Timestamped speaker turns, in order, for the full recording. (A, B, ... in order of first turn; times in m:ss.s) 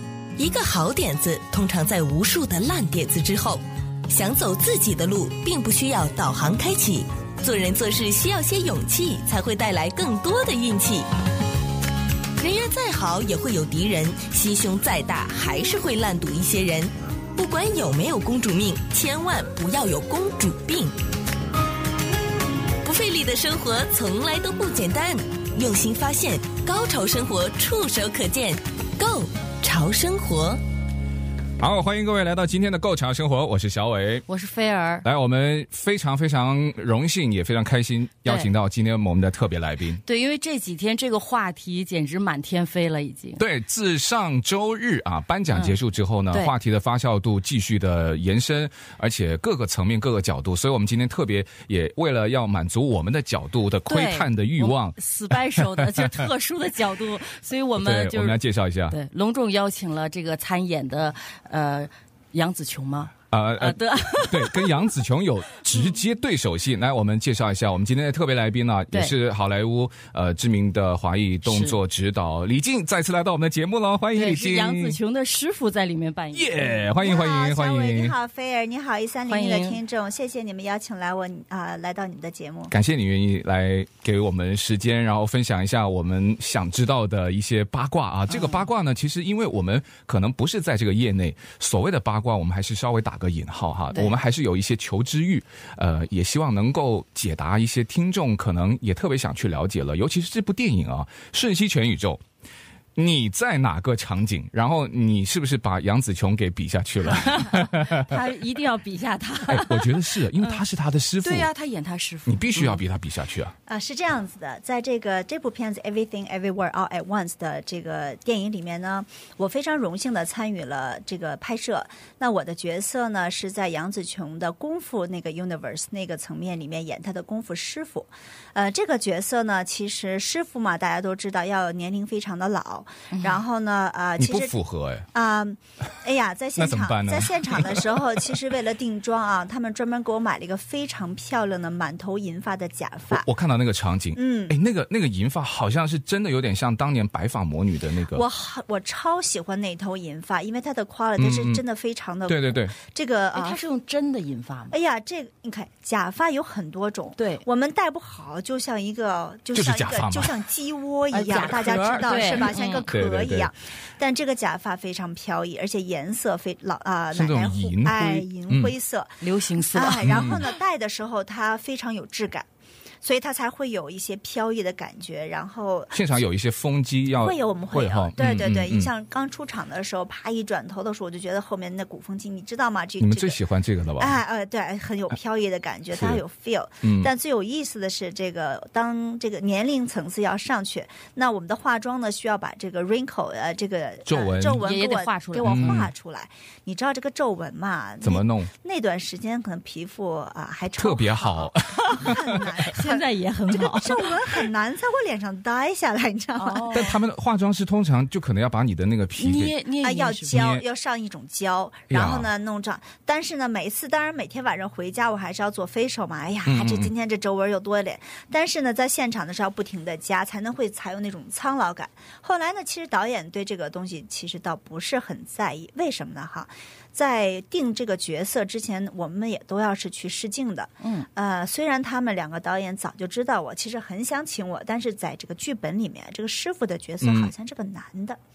0:00.4-0:11.1 A
0:12.4-0:21.0 A
0:22.8-0:30.6 A
0:31.6-0:34.3 B
0:34.3-0:35.1 C
0:35.0-0:40.0 B
0:38.3-0:38.5 C
0:40.0-0:43.4 C
0:43.4-0:56.3 B
0:45.5-0:45.8 C
0:53.9-0:58.4 C
0:57.8-0:59.0 B
0:58.9-1:04.9 C
1:03.3-1:15.0 B
1:11.4-1:11.8 C
1:14.2-1:16.9 C
1:16.3-1:18.2 B
1:17.0-1:22.7 D
1:19.3-1:19.8 C
1:22.7-1:42.2 B
1:28.3-1:28.6 C
1:43.0-1:48.2 B
1:47.1-1:50.6 C
1:49.5-1:51.5 B
1:51.2-1:52.8 C
1:52.3-1:53.5 B
1:53.7-2:14.6 D
2:13.1-2:13.4 C
2:14.2-2:15.1 B
2:15.1-2:23.3 D
2:16.6-2:18.4 B
2:23.1-2:28.2 B
2:24.2-2:24.6 D
2:28.1-2:33.6 D
2:31.2-2:31.6 B
2:32.3-2:32.7 B
2:33.3-2:34.7 C
2:34.7-2:49.2 D
2:37.2-2:37.4 C
2:39.5-2:40.4 B
2:41.1-2:42.9 C
2:42.9-2:43.5 B
2:47.1-2:48.7 B
2:49.2-2:50.6 C
2:49.7-2:52.5 D
2:50.1-2:50.4 B
2:53.0-2:56.0 D
2:55.9-2:58.9 B
2:57.2-3:03.4 D
3:03.0-3:04.2 B
3:04.0-3:26.9 D
3:06.0-3:06.2 B
3:06.8-3:07.1 B
3:14.1-3:14.6 B
3:14.6-3:15.9 C
3:15.4-3:15.9 B
3:18.0-3:18.5 B
3:20.8-3:22.4 B
3:22.6-3:24.4 C
3:26.4-3:27.0 C
3:26.7-3:29.6 B
3:29.2-3:30.3 C
3:29.8-3:58.2 D
3:30.3-3:30.6 B
3:31.9-3:32.3 B
3:36.5-3:36.9 B
3:50.8-3:51.1 C
3:57.0-3:57.3 B